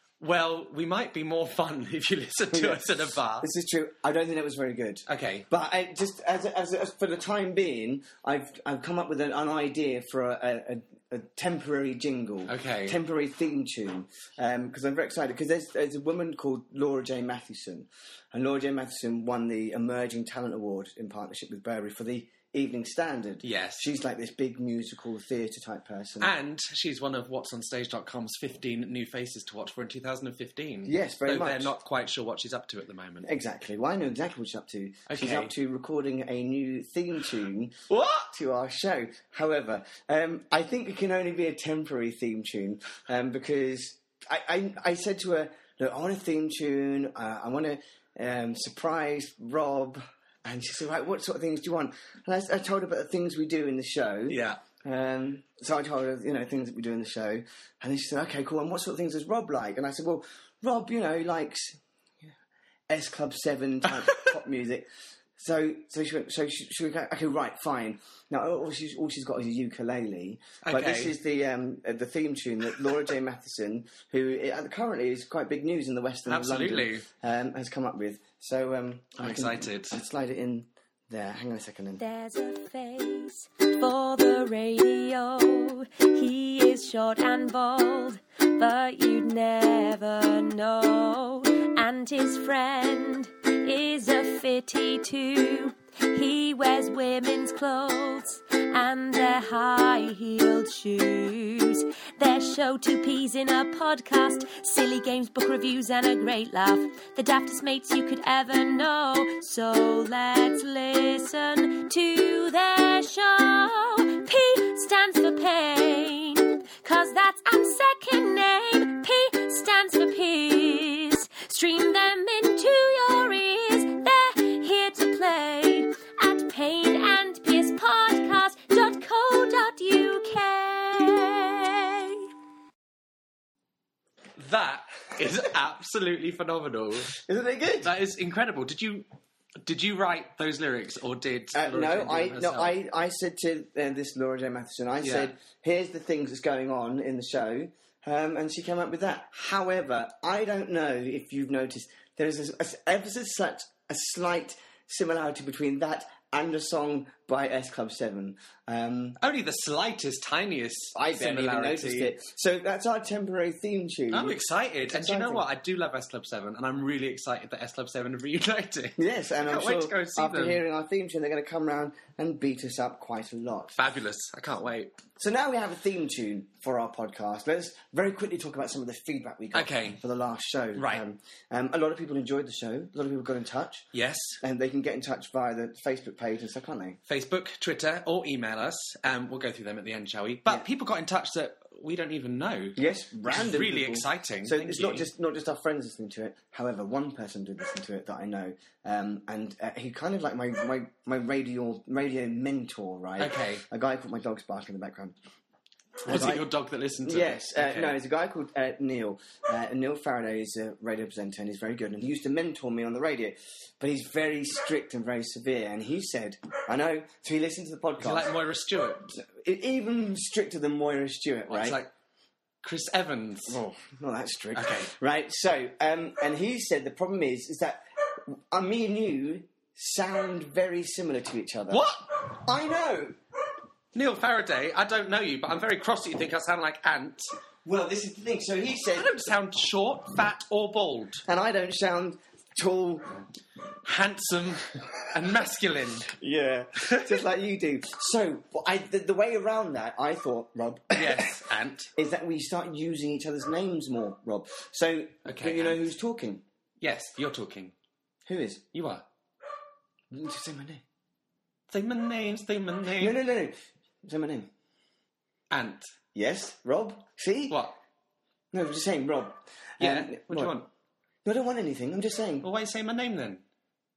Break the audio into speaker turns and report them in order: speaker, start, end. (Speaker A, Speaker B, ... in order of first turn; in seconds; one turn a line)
Speaker A: 0.2-3.5
Speaker B: 2.5-26.3
Speaker A: 5.1-5.5
Speaker A: 12.5-13.0
Speaker A: 23.4-23.8
Speaker A: 26.2-33.3
Speaker B: 30.9-31.7
Speaker B: 33.2-37.8
Speaker A: 35.1-35.5
Speaker A: 37.9-38.3
Speaker B: 38.3-61.8
Speaker A: 54.3-54.6
Speaker B: 62.9-82.0
Speaker A: 70.6-71.2
Speaker A: 76.3-77.1
Speaker A: 79.2-80.0
Speaker C: 82.0-132.3
Speaker A: 134.4-137.2
Speaker B: 137.1-137.9
Speaker A: 137.8-139.1
Speaker A: 139.6-142.8
Speaker B: 141.5-159.2
Speaker A: 145.0-145.3
Speaker A: 159.2-162.2
Speaker B: 160.9-165.4
Speaker A: 164.1-170.6
Speaker B: 169.0-173.8
Speaker A: 173.8-175.0
Speaker B: 175.2-183.9
Speaker A: 179.5-180.0
Speaker A: 180.8-181.0
Speaker A: 183.9-184.4
Speaker B: 184.4-187.0
Speaker A: 187.1-195.1
Speaker B: 192.8-205.2
Speaker A: 203.2-203.7
Speaker A: 206.0-208.0
Speaker B: 206.1-206.4
Speaker B: 207.1-218.3
Speaker A: 218.0-219.1
Speaker B: 219.1-221.8
Speaker A: 221.5-221.9
Speaker A: 222.6-223.6
Speaker B: 223.5-233.2
Speaker A: 224.5-224.9
Speaker A: 231.7-232.1
Speaker A: 233.9-237.2
Speaker B: 237.7-239.3
Speaker A: 238.9-241.2
Speaker B: 241.3-243.2
Speaker A: 243.8-246.1
Speaker B: 246.1-251.3
Speaker A: 246.8-247.2
Speaker A: 250.9-251.9
Speaker B: 251.9-256.4
Speaker A: 255.2-255.8
Speaker A: 256.8-257.7
Speaker B: 258.3-258.6
Speaker A: 258.7-259.1
Speaker B: 260.1-260.8
Speaker A: 261.7-263.2
Speaker B: 263.0-264.5
Speaker A: 265.5-265.9
Speaker B: 266.1-267.6
Speaker A: 267.5-267.8
Speaker B: 268.5-270.6
Speaker A: 269.8-270.7
Speaker B: 271.2-272.5
Speaker A: 272.4-273.4